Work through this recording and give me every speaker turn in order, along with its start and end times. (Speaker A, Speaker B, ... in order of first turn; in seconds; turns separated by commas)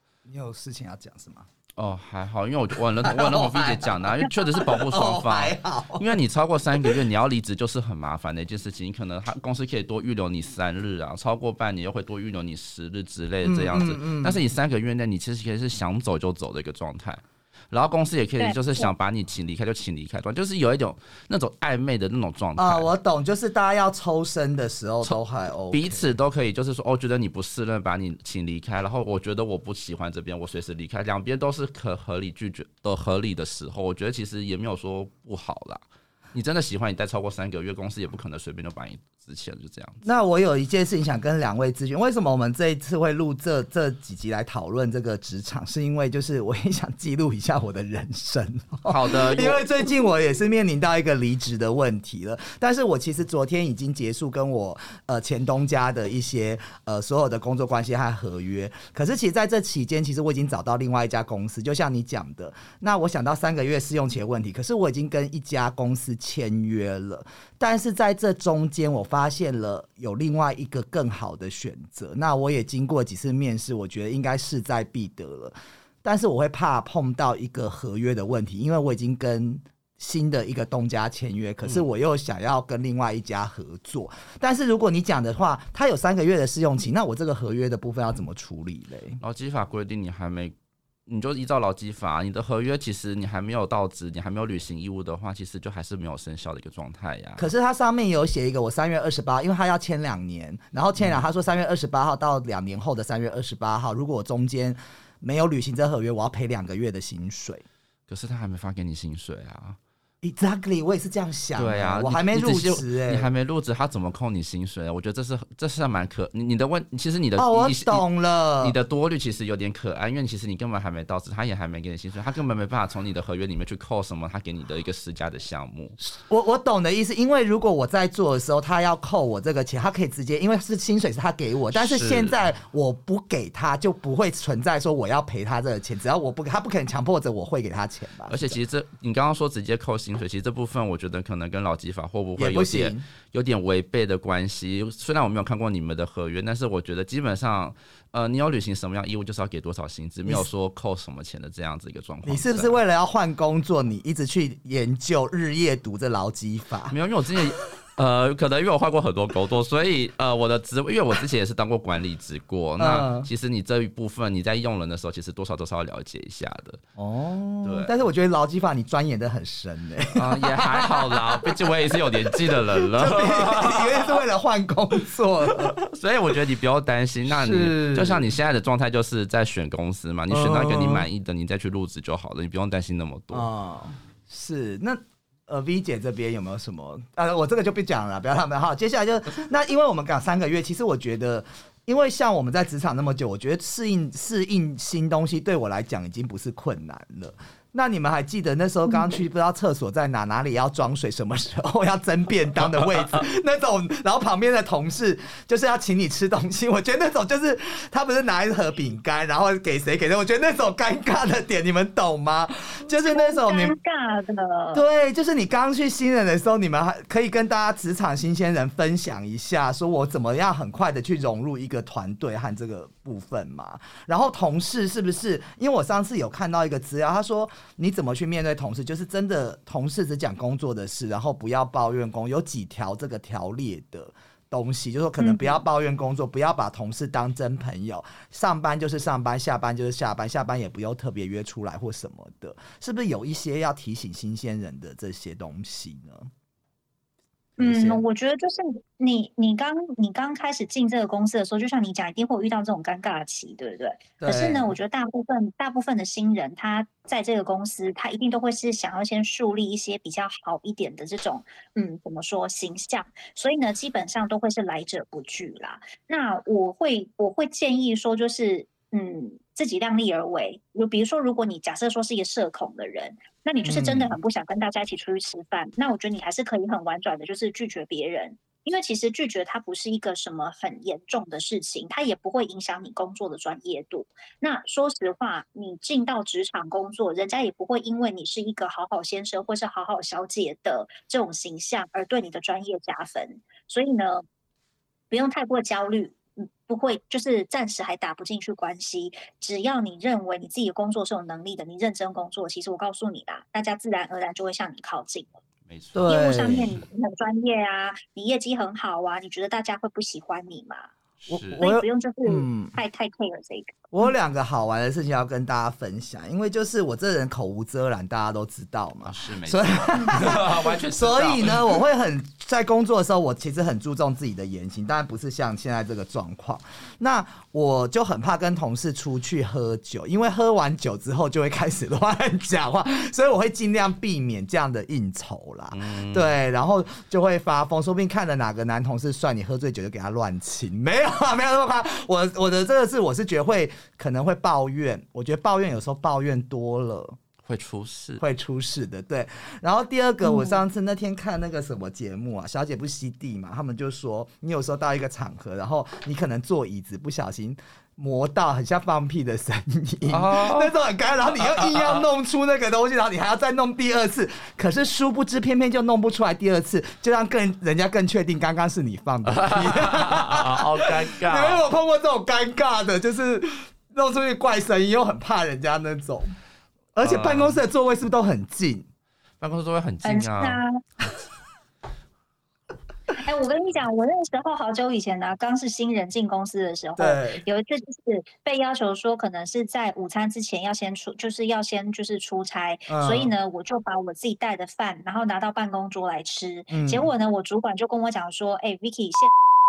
Speaker A: 0.3-1.5, Speaker B: 1.8-22.9, Speaker A: 3.0-6.1, Speaker A: 13.4-14.4, Speaker C: 18.4-18.9, Speaker A: 22.6-26.1, Speaker B: 25.7-35.8, Speaker B: 36.3-40.0, Speaker A: 40.0-89.2, Speaker B: 48.9-49.6, Speaker B: 89.2-90.5, Speaker B: 91.1-97.5, Speaker A: 97.4-107.7, Speaker B: 101.0-101.2, Speaker B: 108.1-109.8, Speaker A: 110.2-113.3, Speaker B: 111.6-118.0, Speaker A: 117.4-118.8, Speaker B: 118.6-126.0, Speaker A: 126.0-138.6, Speaker B: 131.7-132.4, Speaker B: 138.3-152.8, Speaker A: 142.4-143.1, Speaker A: 152.2-157.0, Speaker B: 156.9-166.8, Speaker A: 162.8-163.3, Speaker A: 167.0-171.9, Speaker B: 167.6-167.9, Speaker B: 170.1-174.2, Speaker A: 172.5-175.8, Speaker B: 175.6-183.5, Speaker A: 177.3-178.3, Speaker A: 180.3-181.1, Speaker A: 183.3-213.7, Speaker C: 213.0-214.8, Speaker A: 214.7-246.3, Speaker C: 235.2-235.6, Speaker A: 247.6-248.0, Speaker C: 247.6-294.2, Speaker A: 254.2-254.7, Speaker A: 273.7-274.2, Speaker C: 295.1-305.3, Speaker B: 305.7-306.1, Speaker A: 305.9-306.8, Speaker C: 306.1-310.9, Speaker B: 311.2-311.6, Speaker A: 311.3-312.8, Speaker C: 311.6-313.7, Speaker A: 313.9-347.2, Speaker B: 319.1-321.8, Speaker B: 335.7-336.4, Speaker B: 347.4-348.2, Speaker A: 348.2-376.4, Speaker C: 350.2-350.6, Speaker B: 360.1-360.8, Speaker B: 361.4-362.0, Speaker B: 369.3-371.6, Speaker A: 376.9-378.9, Speaker B: 377.0-377.6, Speaker B: 379.4-380.6, Speaker C: 380.0-380.8, Speaker C: 383.2-399.3, Speaker A: 387.0-387.4, Speaker A: 392.9-393.3, Speaker A: 396.7-397.1